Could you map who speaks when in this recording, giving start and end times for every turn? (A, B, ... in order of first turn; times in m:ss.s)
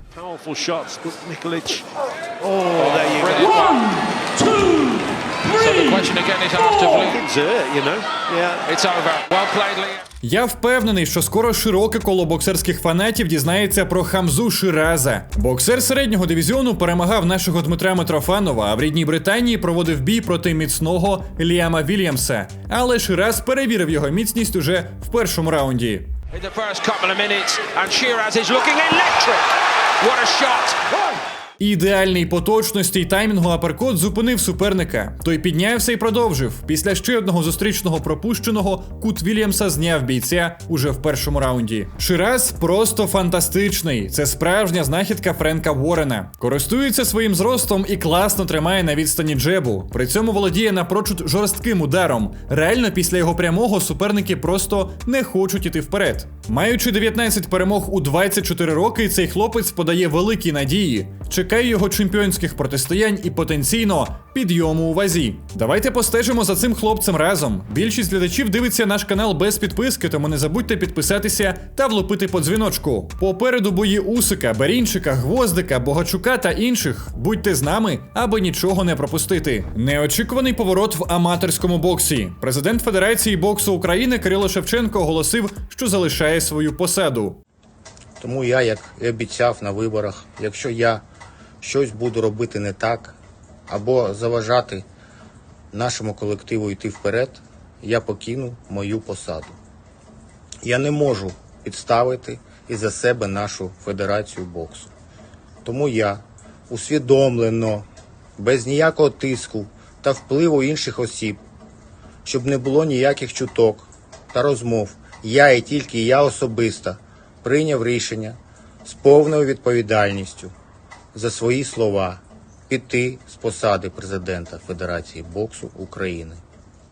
0:00.2-0:01.9 A
0:02.4-0:03.7 A
0:02.8-0:04.0 B
0:05.5-0:07.2 B
0:07.1-0:08.6 A
0:08.7-0:10.0 B
0:10.2-0:26.1 C
0:26.3-0:29.5 B
0:30.0-0:30.9 B
0:31.6-1:27.4 C
1:28.2-1:31.0 D
1:31.6-1:33.2 D
1:33.7-1:34.8 D
1:35.7-1:39.6 D
1:40.6-1:44.9 D
1:45.6-1:47.9 D
1:48.4-1:51.4 D
1:52.2-2:00.5 D
2:01.1-2:06.4 D